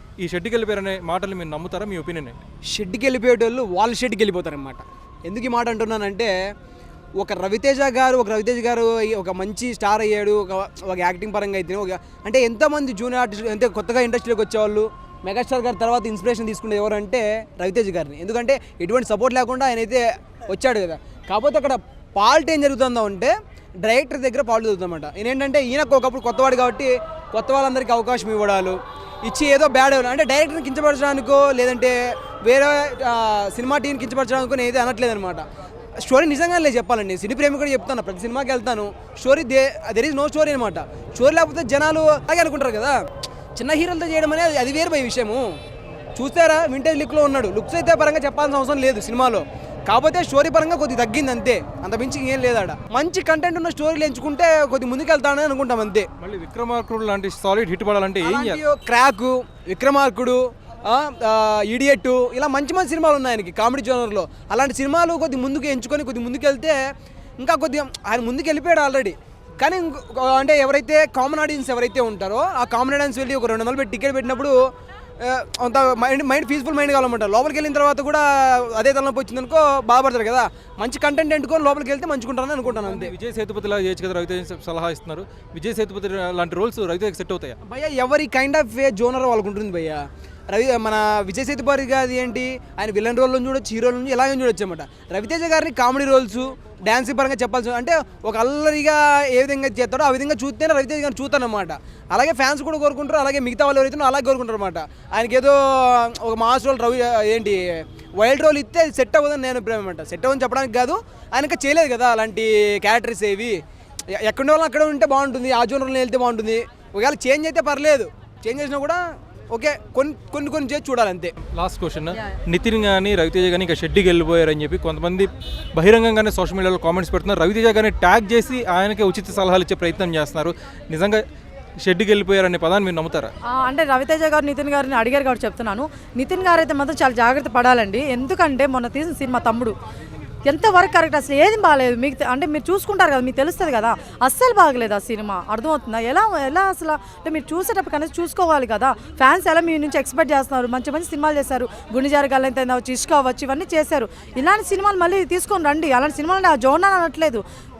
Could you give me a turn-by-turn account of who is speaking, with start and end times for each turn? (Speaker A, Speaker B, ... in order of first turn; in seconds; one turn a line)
Speaker A: 0.2-2.4
Speaker B: 2.7-6.3
Speaker B: 7.2-35.4
Speaker B: 36.0-43.0
Speaker B: 43.5-45.5
Speaker B: 46.1-56.1
Speaker A: 56.2-58.6
Speaker B: 58.2-66.8
Speaker B: 67.4-74.5
Speaker B: 75.2-83.1
Speaker A: 82.7-87.6
Speaker B: 87.6-121.3
Speaker A: 121.5-131.2
Speaker A: 131.8-133.3
Speaker C: 133.5-139.7
Speaker C: 140.4-157.4